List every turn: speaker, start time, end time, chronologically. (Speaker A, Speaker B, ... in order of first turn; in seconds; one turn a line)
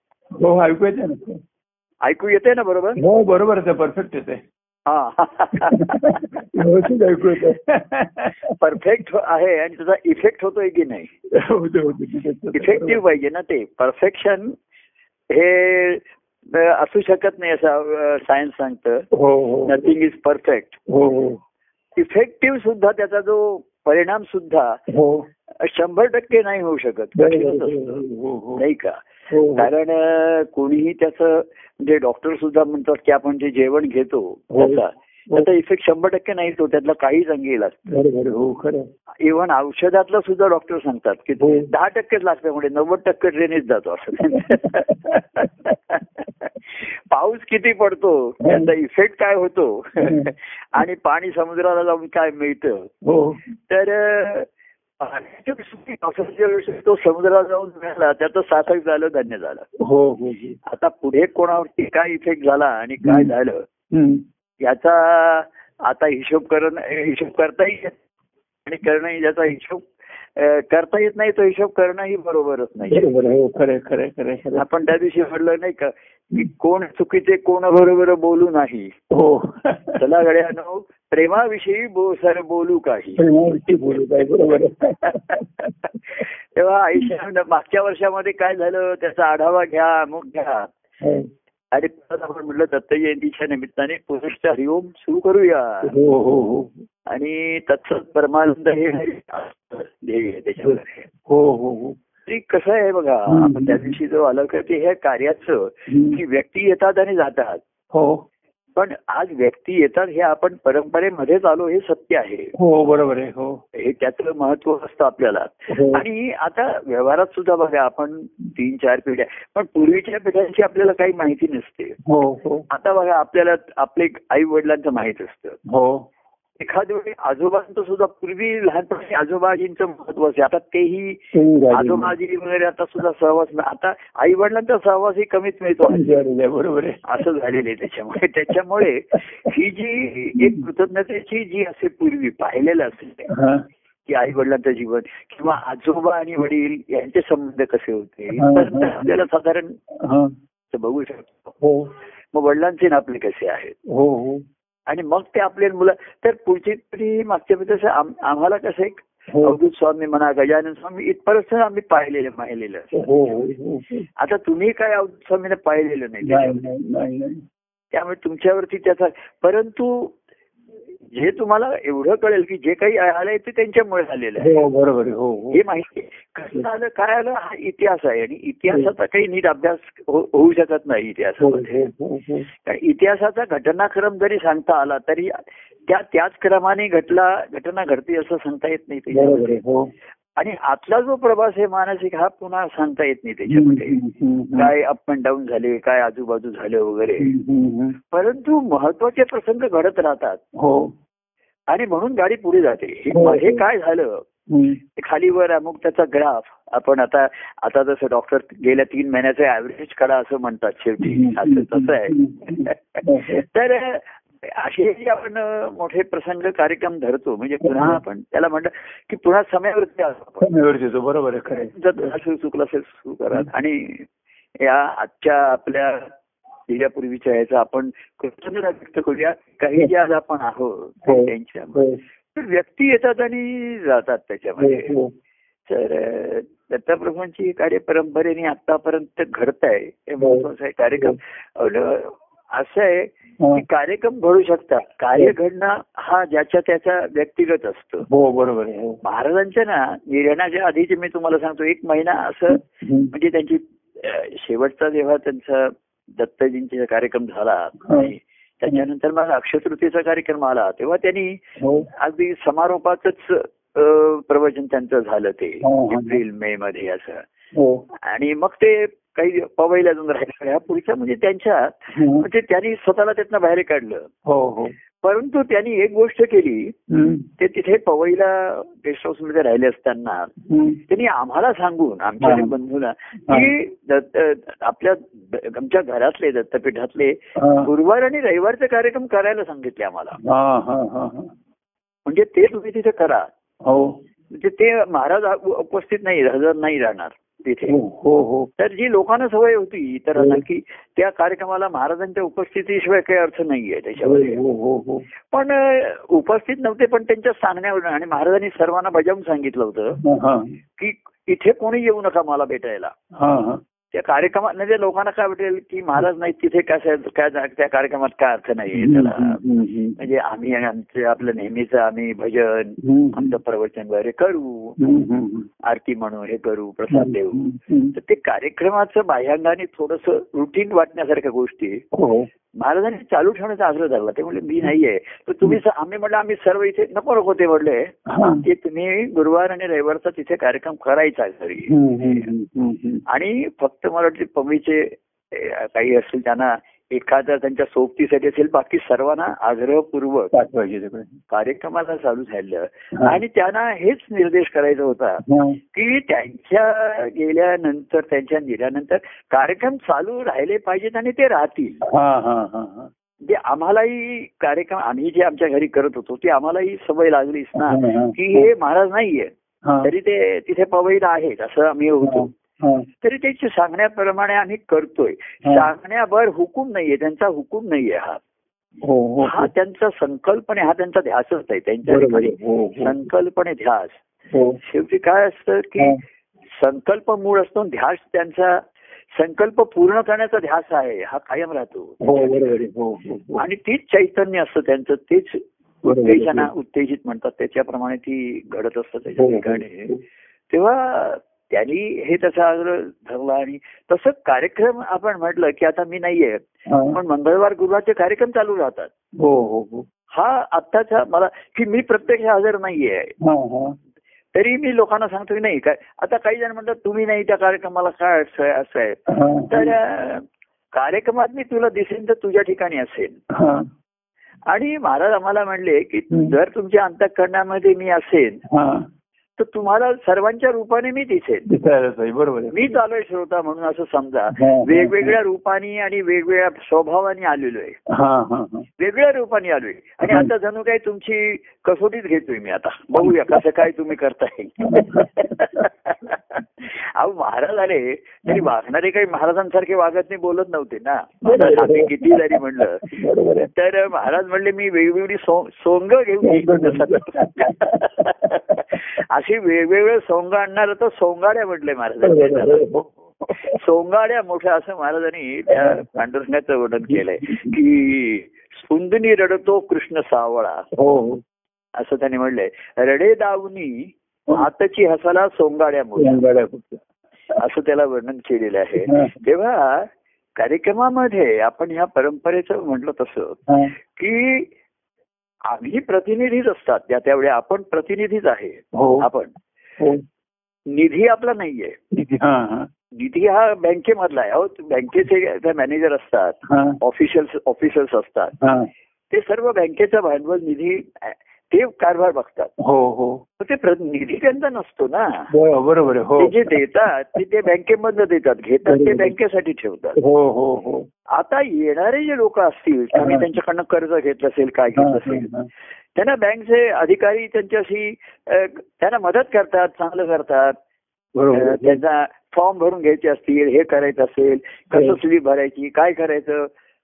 Speaker A: 0.3-1.4
Speaker B: 2.0-3.0
Speaker A: 3.0-4.4
Speaker B: 4.9-6.4
Speaker A: 5.6-8.5
Speaker B: 8.5-11.1
Speaker A: 11.3-13.0
Speaker B: 12.5-14.5
Speaker B: 15.3-19.1
Speaker A: 19.1-19.9
Speaker B: 19.6-20.8
Speaker A: 20.9-21.4
Speaker B: 22.0-24.8
Speaker A: 24.9-25.3
Speaker B: 25.6-28.0
Speaker A: 27.2-28.6
Speaker B: 28.6-38.0
Speaker A: 29.3-29.7
Speaker A: 34.5-35.5
Speaker A: 37.9-38.9
Speaker B: 39.2-52.9
Speaker A: 41.4-41.7
Speaker A: 44.3-45.2
Speaker A: 48.4-48.7
Speaker A: 50.0-50.3
Speaker A: 53.0-53.4
Speaker B: 53.7-54.5
Speaker B: 55.0-59.7
Speaker A: 59.8-60.6
Speaker B: 60.7-63.6
Speaker A: 63.0-63.3
Speaker A: 63.9-64.2
Speaker B: 64.6-68.0
Speaker B: 68.7-73.1
Speaker A: 72.9-74.6
Speaker B: 74.6-79.0
Speaker A: 79.1-80.0
Speaker B: 80.0-83.2
Speaker A: 83.2-85.7
Speaker B: 85.1-85.4
Speaker B: 86.2-90.7
Speaker A: 91.0-91.3
Speaker B: 91.7-96.0
Speaker A: 95.9-96.8
Speaker B: 97.1-101.1
Speaker A: 100.6-102.0
Speaker B: 102.3-107.6
Speaker A: 103.3-104.0
Speaker A: 105.9-106.2
Speaker A: 107.9-108.2
Speaker B: 108.8-112.5
Speaker A: 112.6-113.6
Speaker B: 113.8-122.0
Speaker A: 115.7-116.0
Speaker A: 122.0-122.7
Speaker B: 122.7-125.6
Speaker A: 125.7-126.1
Speaker B: 126.6-136.2
Speaker A: 131.3-132.2
Speaker A: 135.9-137.0
Speaker B: 137.1-143.3
Speaker A: 140.4-140.7
Speaker A: 143.3-143.6
Speaker B: 144.1-149.8
Speaker A: 148.3-149.1
Speaker A: 150.0-150.3
Speaker B: 150.7-151.6
Speaker A: 151.6-151.9
Speaker B: 152.3-153.8
Speaker A: 153.9-154.4
Speaker B: 154.9-163.0
Speaker A: 159.3-159.6
Speaker A: 162.9-164.1
Speaker B: 164.2-166.7
Speaker A: 166.2-167.4
Speaker B: 167.9-170.2
Speaker B: 171.1-174.6
Speaker A: 174.4-175.6
Speaker B: 175.5-181.8
Speaker A: 181.4-182.5
Speaker B: 182.6-189.6
Speaker A: 189.1-189.9
Speaker B: 190.4-194.0
Speaker A: 193.5-194.7
Speaker B: 194.6-197.3
Speaker A: 197.2-198.0
Speaker B: 198.1-200.4
Speaker A: 200.6-200.9
Speaker B: 201.7-204.2
Speaker A: 203.1-203.6
Speaker A: 204.5-204.8
Speaker B: 205.0-220.5
Speaker A: 211.0-213.4
Speaker A: 217.6-218.0
Speaker A: 220.4-222.1
Speaker B: 221.5-224.1
Speaker B: 224.6-226.1
Speaker B: 226.7-234.9
Speaker A: 231.1-232.0
Speaker A: 234.6-235.1
Speaker B: 235.7-248.1
Speaker A: 240.2-240.5
Speaker A: 248.1-249.0
Speaker B: 249.0-261.4
Speaker A: 252.6-253.1
Speaker A: 257.9-258.1
Speaker A: 261.6-261.9
Speaker B: 262.0-267.2
Speaker A: 265.6-266.2
Speaker A: 267.5-267.8
Speaker B: 268.1-274.1
Speaker A: 271.9-272.2
Speaker A: 274.3-274.8
Speaker B: 275.0-276.8
Speaker A: 276.9-277.3
Speaker B: 277.4-280.3
Speaker A: 280.5-280.8
Speaker B: 280.9-290.2
Speaker A: 282.2-282.5
Speaker A: 287.4-287.7
Speaker A: 290.2-291.3
Speaker B: 292.1-293.3
Speaker A: 293.6-294.0
Speaker B: 294.3-297.8
Speaker A: 297.7-298.5
Speaker B: 298.6-304.4
Speaker A: 304.0-305.1
Speaker B: 305.3-310.0
Speaker A: 310.0-310.6
Speaker B: 310.8-312.9
Speaker A: 313.1-313.6
Speaker B: 313.9-319.4
Speaker A: 318.7-320.0
Speaker B: 320.0-324.8
Speaker A: 322.8-323.3
Speaker A: 324.8-325.5
Speaker B: 325.6-327.4
Speaker A: 326.9-327.9
Speaker B: 327.9-331.8
Speaker A: 331.9-332.3
Speaker B: 332.6-342.2
Speaker A: 338.1-338.4
Speaker A: 341.7-343.0
Speaker B: 343.1-350.3
Speaker A: 350.3-351.2
Speaker B: 351.3-361.9
Speaker A: 355.2-355.6
Speaker A: 361.8-362.9
Speaker B: 363.2-372.3
Speaker A: 367.6-368.5
Speaker A: 369.6-369.9
Speaker A: 372.0-372.9
Speaker B: 373.0-378.2
Speaker A: 378.8-379.5
Speaker B: 379.2-384.0
Speaker A: 381.9-383.0
Speaker A: 384.3-384.6
Speaker B: 384.6-386.0
Speaker B: 386.6-388.6
Speaker B: 389.1-392.5
Speaker A: 392.0-393.4
Speaker B: 393.4-399.9
Speaker A: 395.8-396.5
Speaker A: 399.2-400.0
Speaker B: 400.5-408.9
Speaker A: 406.7-407.0
Speaker A: 409.2-409.9
Speaker B: 410.1-413.1
Speaker A: 413.2-413.8
Speaker B: 414.4-423.2
Speaker A: 419.1-419.7
Speaker A: 423.3-423.7
Speaker B: 424.5-428.4
Speaker A: 428.5-428.9
Speaker B: 429.4-431.5
Speaker A: 431.5-432.7
Speaker B: 432.5-437.8
Speaker A: 434.4-435.1
Speaker A: 437.9-438.7
Speaker B: 438.8-452.9
Speaker A: 443.0-443.4
Speaker A: 444.6-445.4
Speaker A: 451.2-453.5
Speaker B: 453.5-462.7
Speaker A: 456.2-458.7
Speaker A: 462.0-463.6
Speaker B: 463.4-470.7
Speaker A: 465.5-465.8
Speaker A: 466.9-467.6
Speaker A: 470.7-471.2
Speaker B: 471.8-476.2
Speaker A: 476.0-476.8
Speaker B: 477.4-483.4
Speaker A: 478.9-479.2
Speaker A: 483.5-483.7
Speaker B: 483.9-484.5
Speaker B: 485.5-489.3
Speaker A: 488.7-489.1
Speaker B: 490.7-491.8
Speaker A: 491.9-492.7
Speaker B: 492.9-498.4
Speaker A: 496.5-496.8
Speaker A: 498.4-498.7
Speaker B: 499.1-502.5
Speaker A: 502.6-503.2
Speaker B: 503.4-505.3
Speaker A: 505.3-506.6
Speaker B: 506.2-510.0
Speaker A: 508.7-509.1
Speaker A: 510.0-510.9
Speaker B: 511.1-515.3
Speaker A: 513.0-513.3
Speaker A: 514.8-515.5
Speaker B: 516.0-520.6
Speaker A: 521.1-521.8
Speaker B: 521.3-526.5